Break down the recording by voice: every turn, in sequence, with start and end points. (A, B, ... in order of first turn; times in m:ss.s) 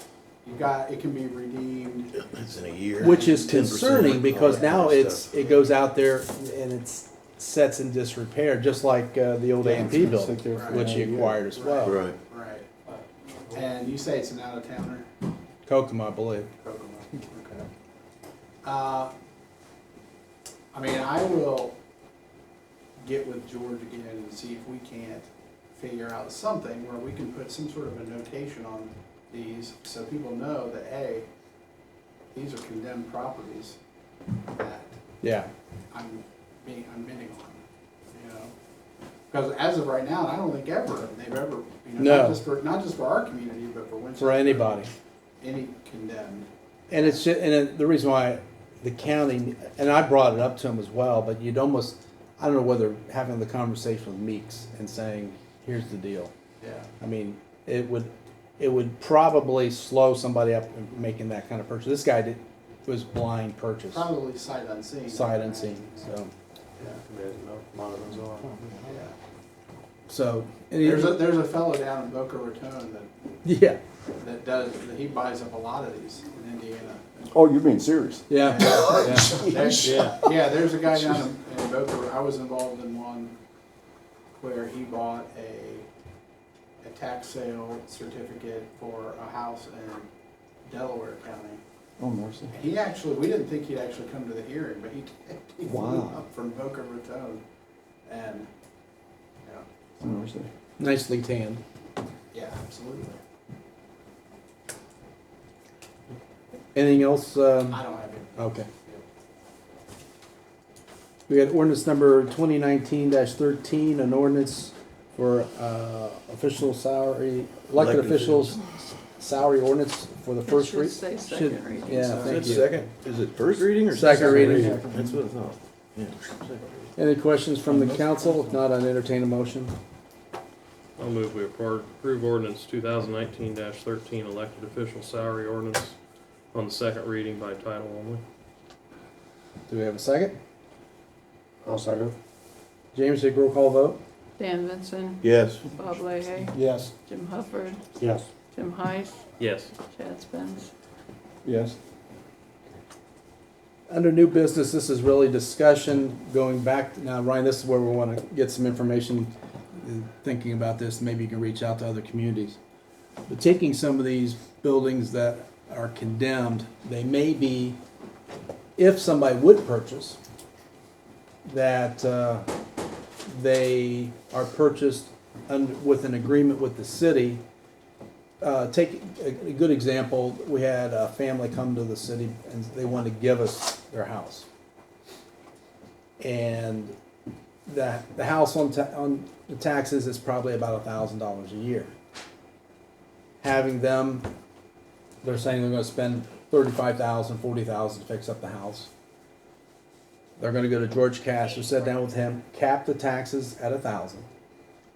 0:00.4-0:02.1 A
0:02.1-0:05.3 B
0:03.0-0:12.0 C
0:03.0-0:03.6 A
0:09.6-0:11.5 D
0:10.5-0:12.7 A
0:11.8-0:12.2 B
0:13.5-0:15.0 A
0:15.6-0:16.5 C
0:16.6-0:17.7 A
0:18.6-0:19.1 A
0:20.7-0:21.7 A
0:23.0-0:31.3 A
0:32.3-0:33.8 A
0:34.6-0:34.9 A
0:35.2-0:35.5 C
0:35.9-0:37.6 A
0:38.1-0:38.5 A
0:39.3-0:44.8 A
0:42.0-0:42.4 C
0:44.2-0:44.9 C
0:45.4-0:47.2 A
0:46.9-0:56.3 C
0:56.6-0:56.9 A
0:57.0-1:04.1 C
1:03.9-1:05.9 A
1:05.1-1:06.3 C
1:07.0-1:08.6 E
1:08.8-1:09.1 A
1:10.1-1:11.2 C
1:10.8-1:13.1 A
1:13.4-1:13.8 C
1:14.2-1:17.4 A
1:17.6-1:18.6 B
1:18.3-1:20.1 C
1:18.4-1:23.3 A
1:19.8-1:20.2 E
1:24.4-1:25.8 A
1:26.8-1:30.1 A
1:30.6-1:31.6 A
1:32.0-1:32.5 D
1:32.5-1:37.4 A
1:35.7-1:36.1 D
1:38.0-1:38.5 A
1:39.4-1:40.2 A
1:40.0-1:40.5 D
1:40.8-1:41.6 C
1:42.3-1:43.2 A
1:46.7-1:47.8 C
1:47.7-1:49.0 A
1:48.4-1:48.7 C
1:51.3-2:02.8 C
1:57.7-1:58.5 B
2:00.4-2:02.6 F
2:02.0-2:06.4 B
2:03.9-2:04.8 C
2:04.0-2:05.2 D
2:07.0-2:09.7 C
2:07.7-2:08.5 D
2:11.0-2:15.9 E
2:16.5-2:18.2 E
2:19.7-2:20.4 C
2:21.6-2:22.1 D
2:22.9-2:24.0 C
2:24.4-2:27.9 F
2:25.2-2:25.6 B
2:26.5-2:26.9 D
2:28.5-2:30.7 F
2:29.4-2:29.7 E
2:31.4-2:31.8 D
2:33.9-2:42.6 C
2:43.3-2:47.8 C
2:48.8-2:50.2 C
2:51.4-2:52.5 C
2:53.2-2:57.4 C
2:58.4-3:04.5 C
3:06.2-3:06.9 C
3:07.7-3:11.9 C
3:13.4-3:14.3 C
3:15.2-3:18.9 C
3:20.4-3:24.3 C